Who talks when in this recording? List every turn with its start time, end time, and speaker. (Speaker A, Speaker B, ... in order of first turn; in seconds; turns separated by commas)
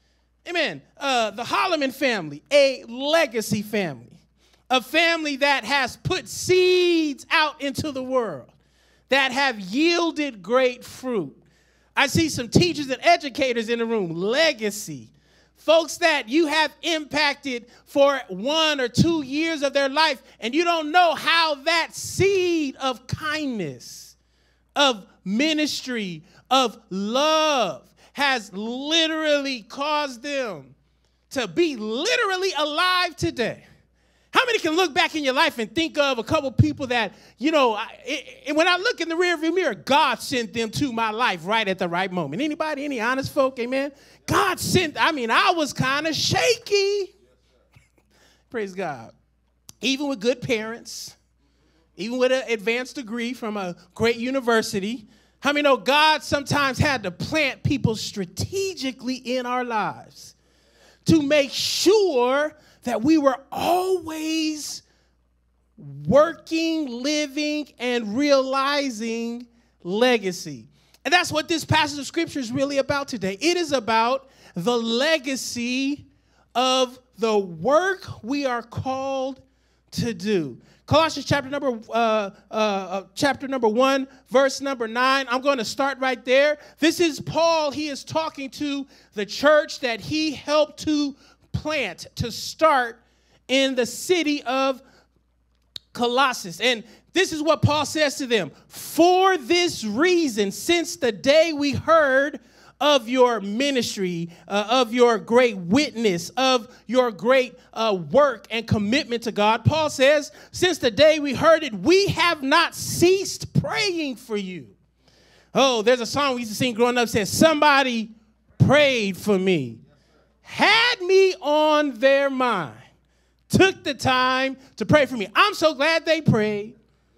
Speaker A: 0.4-8.5, Speaker A: 9.1-11.4, Speaker A: 12.0-24.1, Speaker A: 24.8-30.7, Speaker A: 31.3-33.6, Speaker A: 34.3-47.1, Speaker A: 48.5-49.1, Speaker A: 49.8-51.2, Speaker A: 52.0-60.4, Speaker A: 61.0-64.8, Speaker A: 65.8-94.8, Speaker A: 95.9-114.8, Speaker A: 115.5-119.8, Speaker A: 120.4-122.9, Speaker A: 123.5-126.8